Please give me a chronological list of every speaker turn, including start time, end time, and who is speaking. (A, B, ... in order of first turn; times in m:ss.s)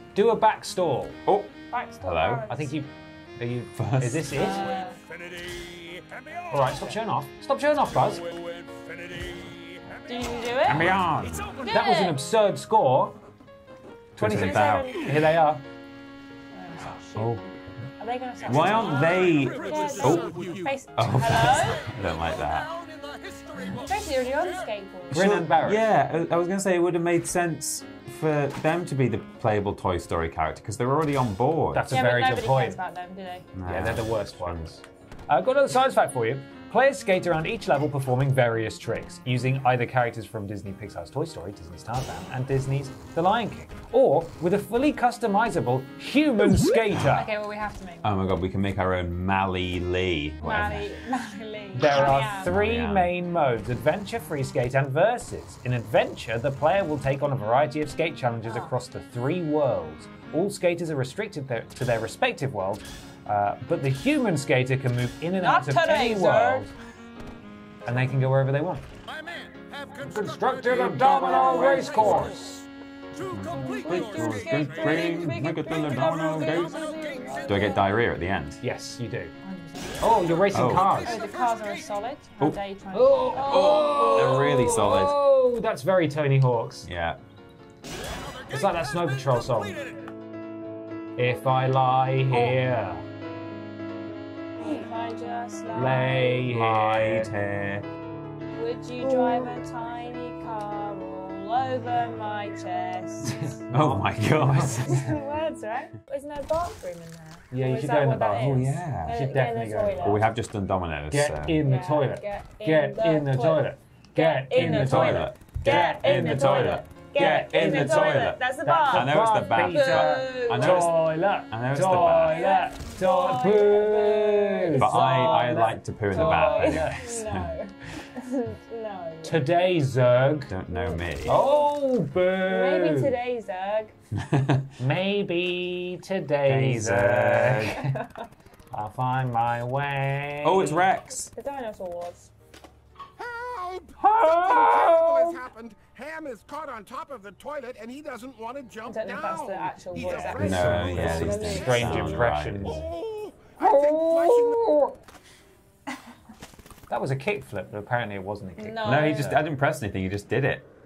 0:00.1-0:01.2 A
0:01.2-0:02.5 B
0:01.7-0:02.7 C
0:02.5-0:04.7 A
0:03.7-0:04.4 B
0:04.3-0:05.0 C
0:04.5-0:07.0 D
0:06.5-0:08.2 A
0:07.9-0:11.7 D
0:10.0-0:11.0 C
0:10.6-0:11.6 B
0:11.6-0:12.2 C
0:11.7-0:13.2 A
0:14.2-0:15.0 B
0:14.2-0:15.6 A
0:14.2-0:15.1 C
0:16.5-0:21.9 C
0:17.1-0:17.4 B
0:18.4-0:22.7 B
0:18.5-0:20.8 D
0:21.7-0:24.7 D
0:23.5-0:25.4 C
0:25.1-0:25.8 A
0:25.1-0:31.9 B
0:31.7-0:32.8 A
0:31.9-0:33.5 C
0:33.5-0:34.8 B
0:33.6-0:47.3 A
0:47.0-0:48.3 C
0:48.0-0:50.9 B
0:50.4-0:52.6 C
0:51.7-1:06.7 A
0:51.9-0:53.1 B
0:58.4-0:58.7 C
1:05.3-1:06.7 C
1:07.8-1:08.8 A
1:09.1-1:12.6 D
1:10.0-1:12.6 A
1:10.8-1:12.5 C
1:13.1-1:17.7 D
1:13.3-1:16.8 B
1:13.5-1:17.8 C
1:17.4-1:18.6 B
1:18.6-1:19.3 A
1:19.4-1:24.7 C
1:20.0-1:21.2 A
1:20.1-1:21.9 D
1:20.5-1:21.0 B
1:22.9-1:26.9 A
1:23.4-1:25.2 B
1:26.8-1:27.2 B
1:28.2-1:29.9 D
1:28.5-1:29.8 A
1:31.2-1:33.0 A
1:34.6-1:36.5 C
1:35.7-1:37.3 A
1:36.4-1:37.8 B
1:38.5-1:43.6 C
1:39.0-1:39.5 A
1:43.3-1:45.1 A
1:43.7-1:45.1 B
1:44.9-1:50.2 C
1:47.5-1:50.2 A
1:48.4-1:49.1 B
1:50.0-1:51.6 B
1:51.1-2:07.0 A
1:51.6-2:01.0 C
1:54.5-2:02.5 B
2:02.1-2:05.6 C
2:04.8-2:07.5 B
2:06.1-2:09.5 C
2:09.2-2:10.5 A
2:10.5-2:11.4 B
2:10.7-2:11.7 C
2:11.2-2:13.1 A
2:12.4-2:13.9 C
2:14.1-2:14.7 B
2:14.8-2:17.9 A
2:16.4-2:17.8 B
2:17.8-2:18.2 C
2:18.7-2:20.9 A
2:20.4-2:21.3 B
2:21.3-2:22.3 C
2:23.2-2:31.9 E
2:24.0-2:25.4 A
2:28.8-2:32.2 C
2:30.0-2:32.9 A
2:30.4-2:32.9 B
2:32.6-2:34.8 E
2:33.6-2:35.0 A
2:36.9-2:39.4 A
2:38.6-2:39.4 C
2:38.8-2:40.6 B